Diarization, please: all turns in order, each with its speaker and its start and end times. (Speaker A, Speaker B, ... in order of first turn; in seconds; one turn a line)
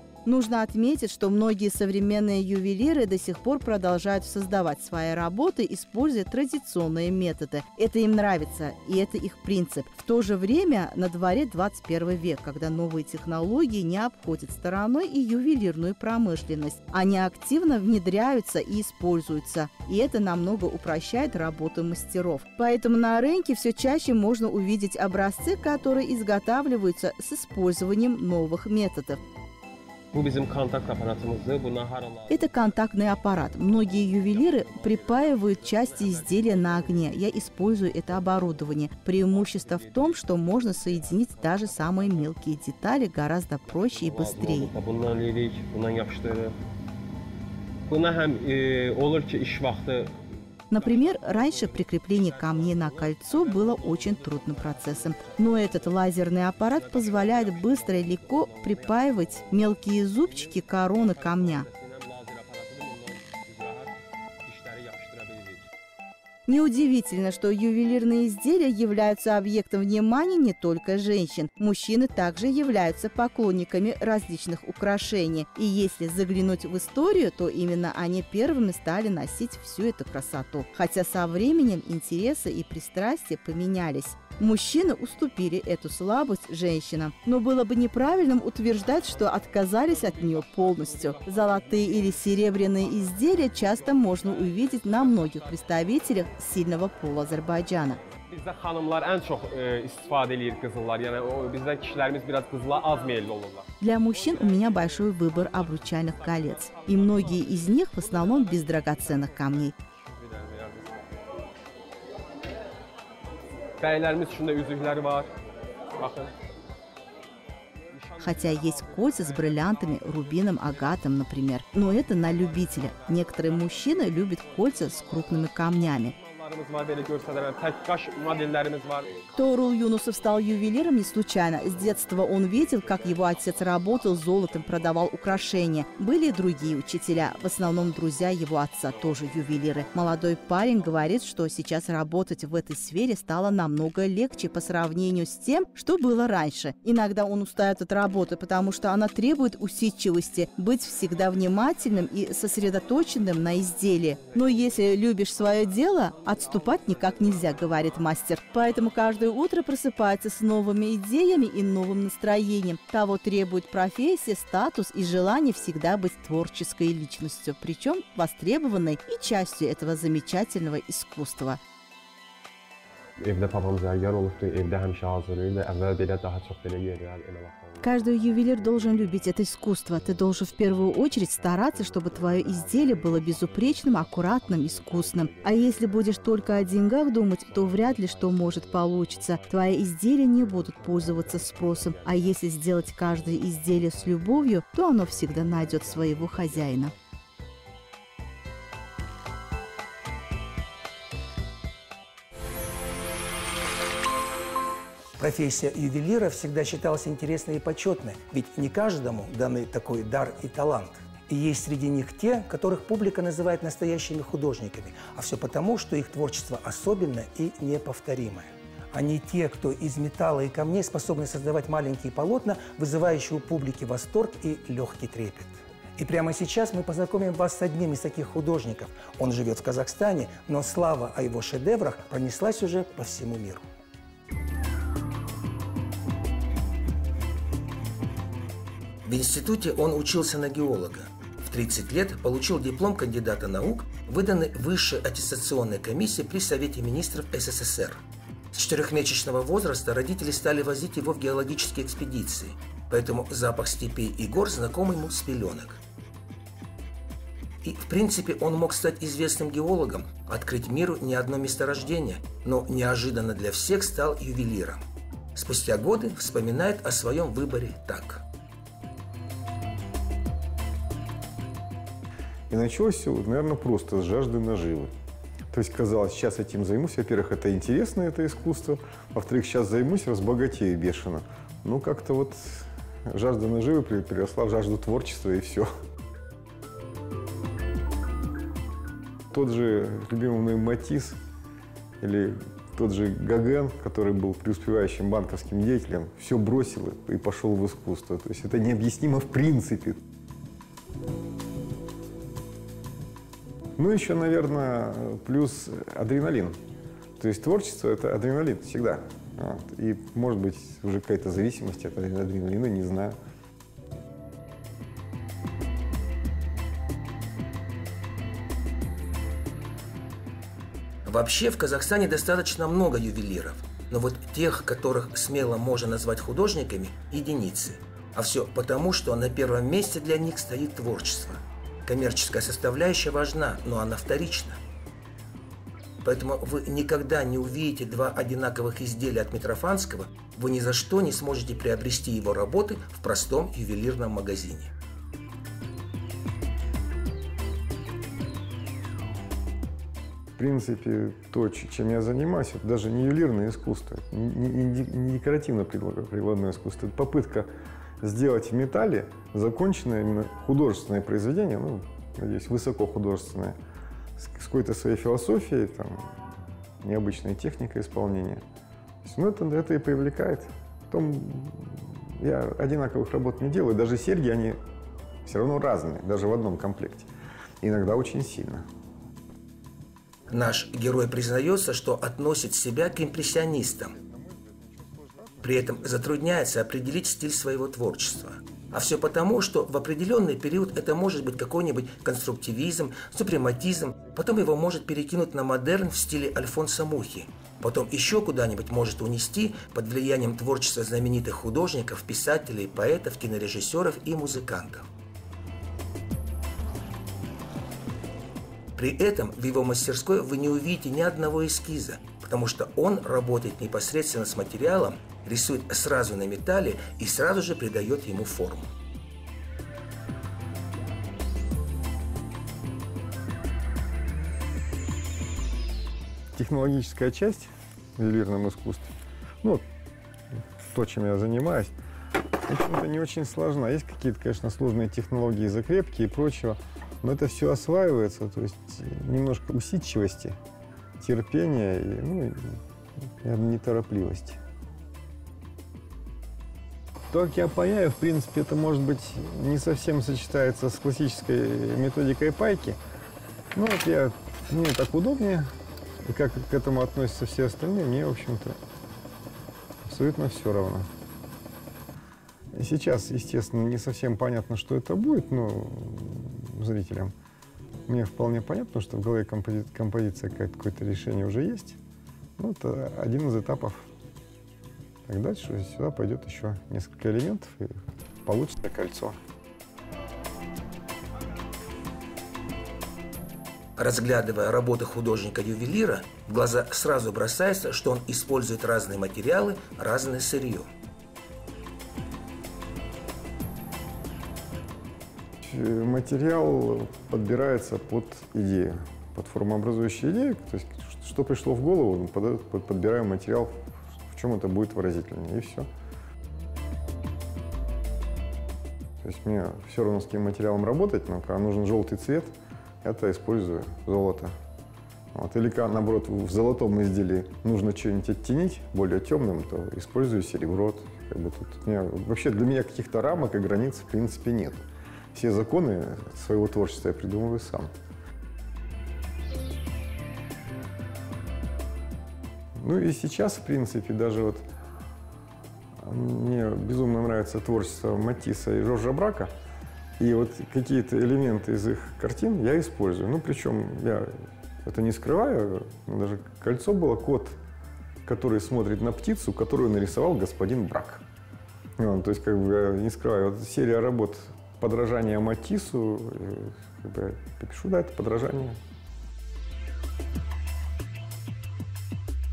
Speaker A: 0.2-29.2
Speaker B: 30.1-37.3
Speaker A: 32.3-44.7
Speaker B: 38.0-38.7
Speaker B: 39.2-42.5
Speaker B: 43.6-46.5
Speaker B: 47.9-65.7
Speaker A: 50.7-61.7
Speaker A: 66.5-98.0
Speaker B: 88.7-96.4
Speaker B: 98.1-111.0
Speaker A: 103.8-109.7
Speaker B: 113.8-115.3
Speaker B: 115.9-116.4
Speaker B: 117.9-121.2
Speaker A: 118.2-126.1
Speaker B: 121.7-129.4
Speaker A: 129.3-171.6
Speaker B: 131.8-134.1
Speaker B: 153.9-158.0
Speaker B: 173.2-197.0
Speaker A: 177.8-196.9
Speaker C: 205.2-233.6
Speaker C: 239.0-248.0
Speaker C: 248.5-255.8
Speaker C: 257.6-268.2
Speaker D: 272.5-274.9
Speaker D: 275.5-285.7
Speaker D: 289.3-291.2
Speaker D: 292.0-300.0
Speaker D: 303.8-306.6
Speaker D: 307.2-313.2
Speaker C: 321.1-334.6
Speaker C: 336.0-344.7
Speaker D: 350.4-357.5
Speaker D: 358.0-363.6
Speaker D: 364.2-366.1
Speaker D: 366.8-368.4
Speaker D: 369.0-374.6
Speaker D: 375.2-377.1
Speaker D: 377.6-378.6
Speaker C: 380.3-384.0
Speaker C: 385.4-404.9
Speaker C: 408.7-418.7
Speaker D: 426.3-429.6
Speaker D: 430.6-431.7
Speaker D: 432.4-440.4
Speaker D: 441.0-442.6
Speaker D: 443.2-444.4
Speaker D: 447.1-452.8
Speaker D: 453.5-455.5
Speaker D: 456.0-458.6
Speaker D: 459.8-460.9
Speaker D: 462.5-467.1
Speaker D: 467.9-471.8
Speaker D: 472.4-473.9
Speaker D: 475.1-479.2
Speaker C: 483.8-490.7
Speaker D: 495.4-505.7
Speaker D: 509.0-514.3
Speaker D: 515.1-527.7
Speaker D: 532.6-534.5
Speaker D: 535.8-539.3
Speaker D: 540.0-547.4
Speaker D: 548.0-551.0
Speaker D: 551.8-558.6